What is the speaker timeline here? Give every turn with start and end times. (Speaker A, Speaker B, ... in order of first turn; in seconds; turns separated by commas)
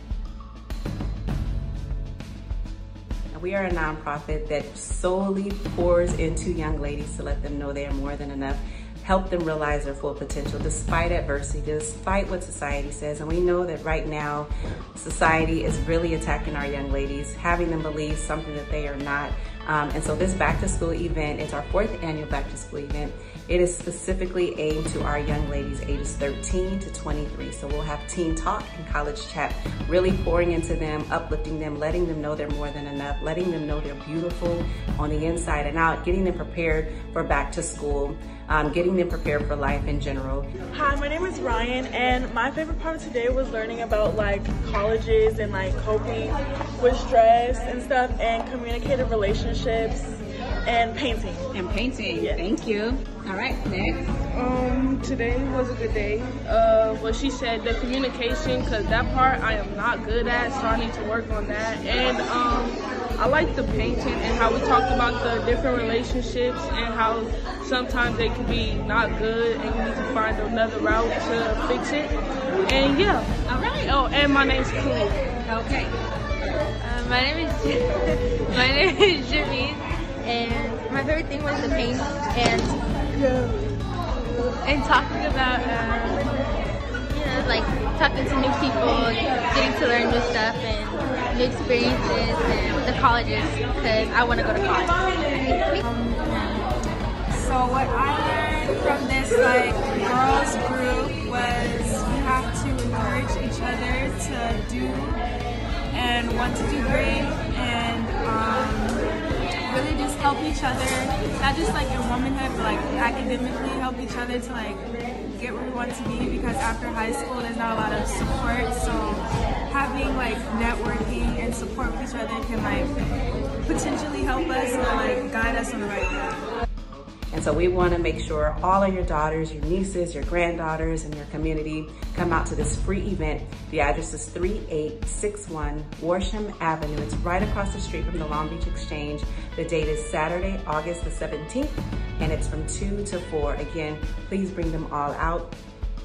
Speaker A: 3.3-40.5, Speaker B: 40.7-50.1, Speaker B: 50.6-51.5, Speaker C: 51.6-54.0, Speaker B: 52.2-52.5, Speaker A: 52.8-53.4, Speaker D: 54.3-75.2, Speaker E: 75.5-75.9, Speaker E: 76.8-83.8, Speaker E: 84.6-86.4, Speaker E: 87.1-95.8, Speaker F: 95.8-96.7, Speaker F: 97.3-105.2, Speaker F: 105.9-109.1, Speaker F: 109.7-123.0, Speaker F: 123.7-126.3, Speaker A: 127.3-145.6